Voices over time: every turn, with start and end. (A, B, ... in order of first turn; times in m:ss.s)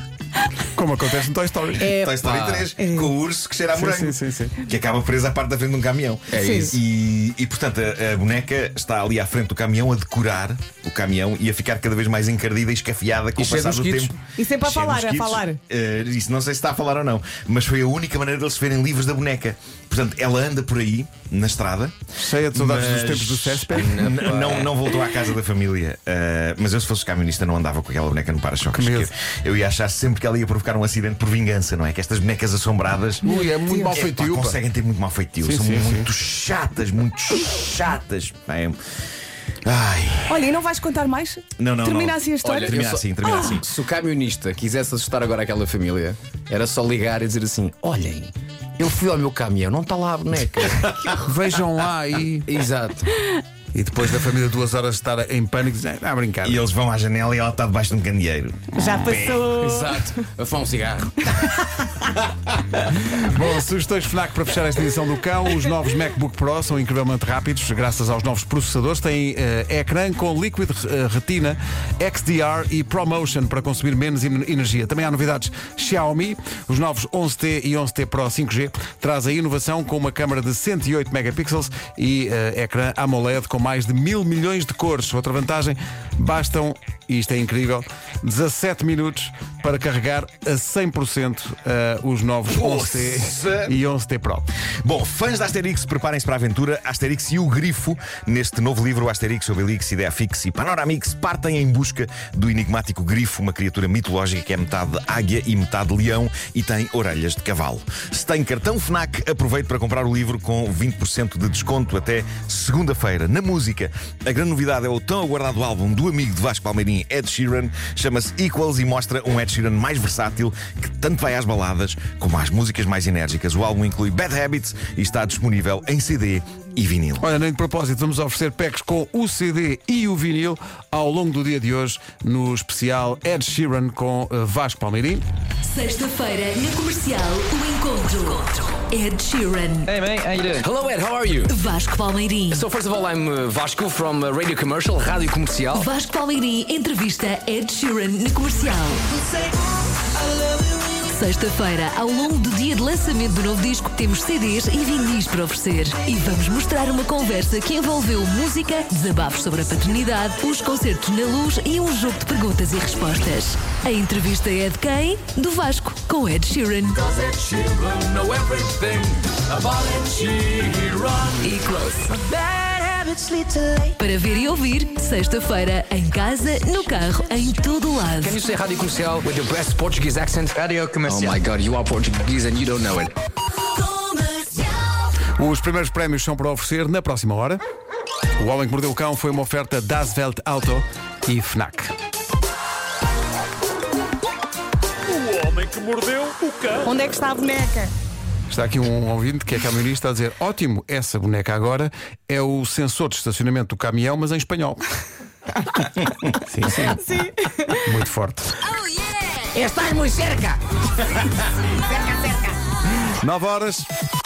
0:00.6-0:01.9 A
0:01.8-0:02.7 B
0:01.8-0:22.0 C
0:03.7-0:04.6 A
0:06.3-0:06.6 B
0:13.4-0:14.2 B
0:14.4-0:15.5 D
0:22.2-0:24.3 A
0:22.5-0:33.3 C
0:23.8-0:24.7 B
0:28.7-0:29.1 A
0:33.2-0:34.6 A
0:33.4-0:33.9 D
0:33.9-0:38.8 C
0:35.4-0:36.1 A
0:39.6-0:40.4 C
0:40.3-0:43.6 D
0:41.6-0:43.7 C
0:42.4-0:51.2 B
0:51.1-0:52.5 A
0:52.5-0:53.2 B
0:53.7-0:56.6 A
0:56.4-0:59.5 C
0:58.8-0:59.7 D
0:59.5-1:01.3 B
1:03.0-1:34.5 A
1:32.5-1:33.8 C
1:34.8-2:07.3 C
2:07.2-2:15.2 A
2:15.6-2:19.9 E
2:19.9-2:20.7 F
2:20.5-2:21.6 B
2:21.5-2:22.6 E
2:22.5-2:25.9 B
2:25.7-2:29.1 E
2:31.0-2:47.2 E
2:47.1-2:53.9 B
2:54.0-2:58.4 E
2:58.2-3:03.1 B
2:59.9-3:01.5 F
3:05.4-3:07.6 A
3:08.4-3:11.9 A
3:16.8-3:17.9 D
3:18.5-3:24.8 A
3:26.4-3:27.1 A
3:27.8-3:28.5 A
3:29.6-3:30.6 B
3:31.9-3:32.5 B
3:33.1-3:33.9 A